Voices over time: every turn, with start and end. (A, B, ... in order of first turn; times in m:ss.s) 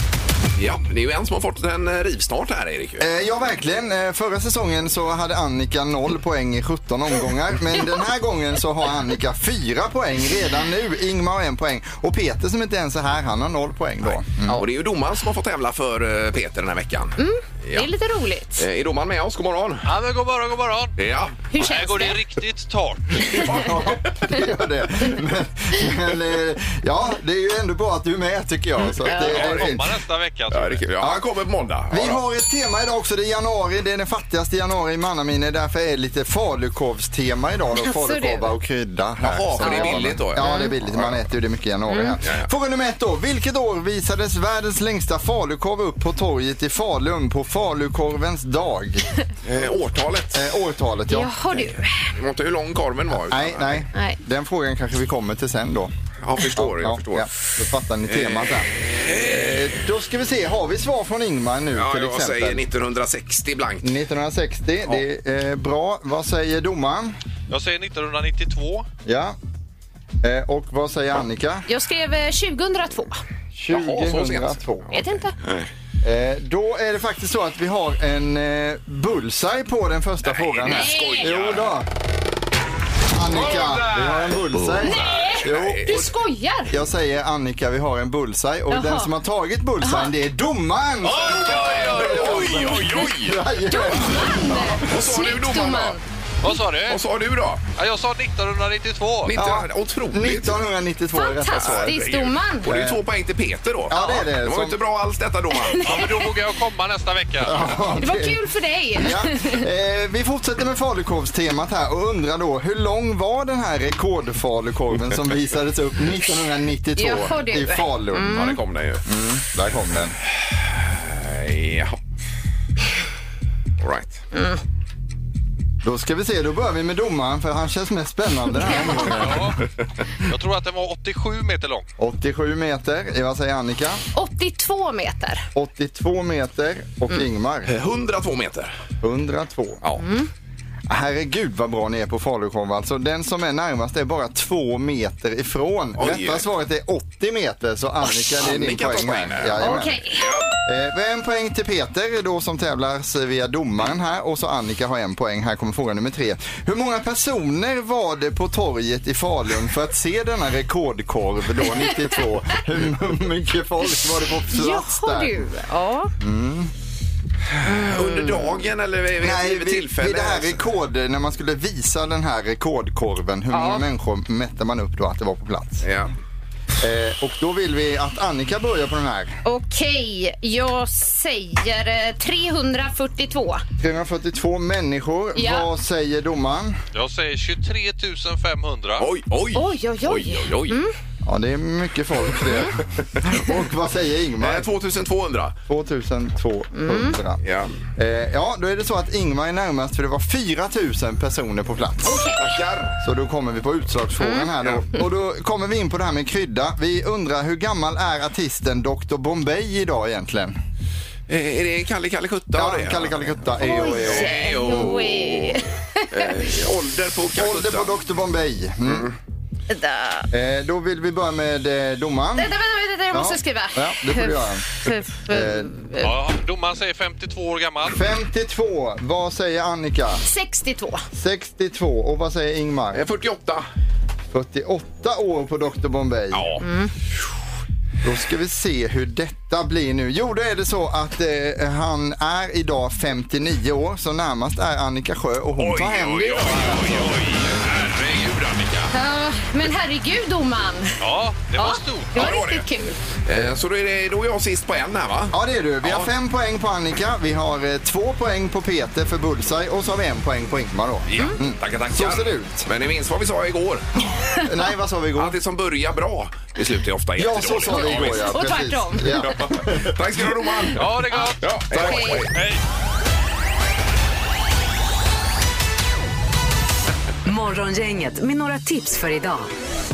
0:00.6-0:03.1 A
0:03.0-0:14.6 B
0:14.6-0:17.9 A
0:17.2-0:18.6 C
0:18.6-0:19.9 A
0:19.8-0:20.9 D
0:21.0-0:21.5 A
0:21.5-0:22.2 C
0:21.5-0:23.4 D
0:23.3-0:24.0 A
0:23.4-0:29.9 B
0:29.0-0:29.6 C
0:29.1-0:30.9 D
0:30.5-0:32.2 A
0:31.9-0:49.1 B
0:37.8-0:38.5 C
0:39.2-0:41.2 A
0:39.6-0:40.7 C
0:41.9-0:42.2 C
0:49.4-0:50.5 A
0:50.3-0:51.7 B
0:51.1-0:52.1 C
0:52.1-0:53.9 A
0:53.3-1:02.6 B
0:56.2-0:57.3 A
0:58.1-0:59.7 A
1:01.7-1:03.9 A
1:03.8-1:07.2 B
1:07.5-1:08.8 D
1:09.0-1:09.4 B
1:10.2-1:11.6 B
1:11.7-1:13.2 C
1:13.5-1:15.0 B
1:13.7-1:14.6 A
1:14.9-1:15.3 C
1:15.4-1:15.7 A
1:16.0-1:21.9 B
1:20.2-1:21.7 A
1:20.7-1:21.3 C
1:23.1-1:26.1 B
1:23.5-1:23.8 A
1:23.6-1:24.2 D
1:24.6-1:26.0 A
1:24.8-1:26.7 C
1:26.7-1:35.0 B
1:28.7-1:29.1 C
1:29.8-1:30.1 C
1:31.0-1:32.9 D
1:31.2-1:33.4 A
1:33.7-1:36.0 C
1:34.8-1:35.9 A
1:36.4-1:37.0 D
1:36.9-1:37.6 A
1:37.7-1:39.3 D
1:39.3-1:40.6 A
1:39.3-1:42.0 B
1:41.1-1:42.7 C
1:41.5-1:45.9 A
1:42.6-1:43.0 B
1:43.9-1:44.8 B
1:43.9-1:44.2 C
1:45.5-1:46.3 C
1:45.8-1:47.8 D
1:47.4-1:48.4 B
1:48.0-1:49.6 C
1:48.9-2:00.2 B
1:57.0-1:58.6 C
1:58.3-1:59.0 A
2:00.3-2:02.0 A
2:03.8-2:04.2 A
2:04.3-2:04.6 C
2:05.8-2:09.6 B
2:08.7-2:09.0 C
2:09.2-2:09.6 D
2:10.2-2:11.9 D
2:12.0-2:14.0 B
2:14.1-2:15.5 C
2:15.5-2:17.7 B
2:17.7-2:18.7 A
2:19.0-2:19.8 B
2:20.0-2:20.3 C
2:20.9-2:30.0 B
2:26.0-2:26.4 A
2:28.2-2:30.5 A
2:29.6-2:30.3 C
2:30.6-2:45.4 B
2:44.5-2:46.1 C
2:46.2-2:46.7 B
2:47.6-2:50.6 A
2:47.6-2:48.4 C
2:49.2-2:55.9 B
2:53.5-2:53.8 C
2:55.8-2:56.1 A
2:56.8-2:59.4 B
2:59.4-3:03.6 C
3:03.8-3:06.8 B
3:05.4-3:05.7 C
3:06.9-3:09.1 D
3:09.0-3:10.8 A
3:09.5-3:10.9 C
3:11.2-3:14.7 B
3:14.4-3:15.6 A
3:15.7-3:17.4 B
3:16.7-3:17.2 C
3:17.4-3:17.8 A
3:18.0-3:22.2 B
3:22.0-3:22.4 C
3:22.2-3:23.0 A
3:23.0-3:30.6 B
3:24.2-3:24.5 C
3:31.3-3:37.9 A
3:32.5-3:34.9 B
3:33.6-3:36.3 C
3:37.3-3:39.1 B
3:38.9-3:39.1 A
3:39.7-3:40.3 C
3:40.3-3:42.5 B
3:42.4-3:46.1 C
3:43.1-3:45.7 B
3:46.0-3:48.0 D
3:47.8-3:50.2 B
3:50.2-3:51.0 C
3:51.1-3:53.0 B
3:52.9-3:53.6 A
3:54.3-3:56.5 B
3:56.3-3:56.6 A
3:56.6-3:56.9 C
3:58.0-4:07.4 B
4:05.6-4:08.9 A
4:08.9-4:11.0 C
4:11.0-4:12.2 D
4:11.5-4:13.0 C
4:12.1-4:12.6 A
4:13.2-4:16.1 A
4:15.3-4:22.7 B
4:21.1-4:23.9 A
4:24.4-4:25.4 B
4:25.2-4:28.3 A
4:27.2-4:30.0 B
4:27.7-4:29.4 C
4:29.2-4:30.8 A
4:30.8-4:32.6 D
4:31.0-4:32.3 C
4:31.4-4:32.3 A
4:37.2-4:39.5 E